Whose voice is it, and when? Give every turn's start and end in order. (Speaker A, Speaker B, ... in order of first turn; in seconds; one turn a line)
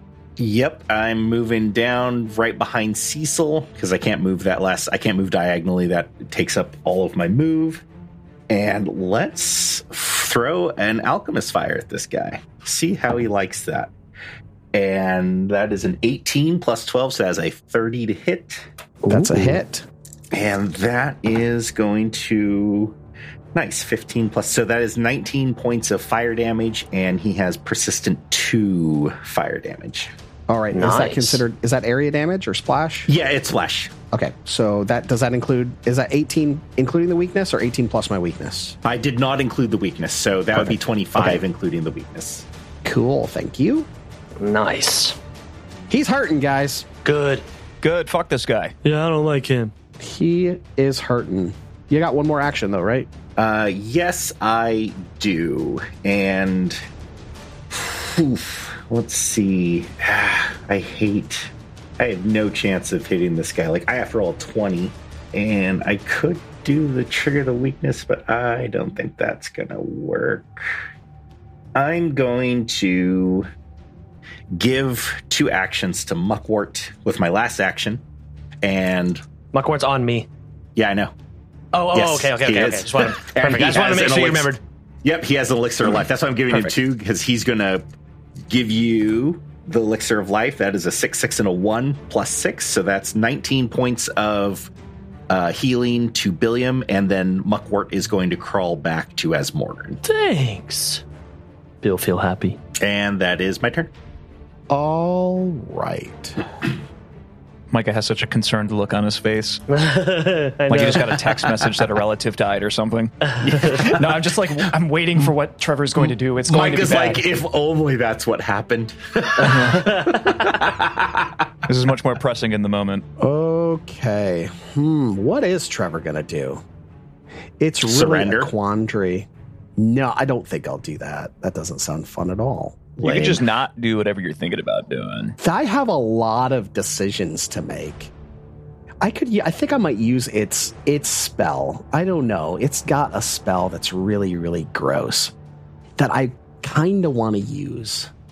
Speaker A: 0.4-7.8
Speaker A: 8.5-13.9
Speaker A: 14.7-18.6
Speaker B: 19.1-19.9
Speaker C: 19.2-19.5
Speaker A: 20.3-22.9
Speaker A: 23.5-30.1
Speaker B: 30.5-33.1
Speaker C: 30.7-31.4
Speaker A: 33.1-33.9
Speaker B: 34.1-38.8
Speaker A: 38.8-42.4
Speaker B: 40.5-41.4
Speaker B: 42.8-43.9
Speaker C: 44.4-45.2
Speaker B: 45.9-46.9
Speaker C: 47.0-47.4
Speaker D: 47.8-48.7
Speaker C: 48.8-49.7
Speaker B: 50.0-53.1
Speaker A: 53.4-56.8
Speaker A: 57.7-70.7
Speaker A: 71.7-73.5
Speaker A: 74.5-78.0
Speaker A: 78.6-79.2
Speaker C: 79.5-80.3
Speaker A: 80.8-81.1
Speaker C: 81.7-84.6
Speaker A: 81.9-87.8
Speaker A: 88.5-94.7
Speaker A: 95.3-100.0
Speaker C: 100.0-101.0
Speaker C: 101.8-102.6
Speaker A: 102.8-103.9
Speaker B: 104.7-106.4
Speaker D: 107.7-109.6
Speaker C: 109.7-111.3
Speaker D: 110.7-113.9
Speaker C: 113.4-113.7
Speaker E: 113.6-117.2
Speaker A: 113.8-114.3
Speaker A: 116.4-121.5
Speaker C: 119.4-120.5
Speaker D: 121.7-123.0
Speaker B: 123.2-126.6
Speaker B: 127.6-133.4
Speaker A: 127.8-128.5
Speaker A: 133.0-133.4
Speaker D: 133.0-135.3
Speaker B: 135.4-138.1
Speaker B: 139.0-145.3
Speaker B: 146.0-148.1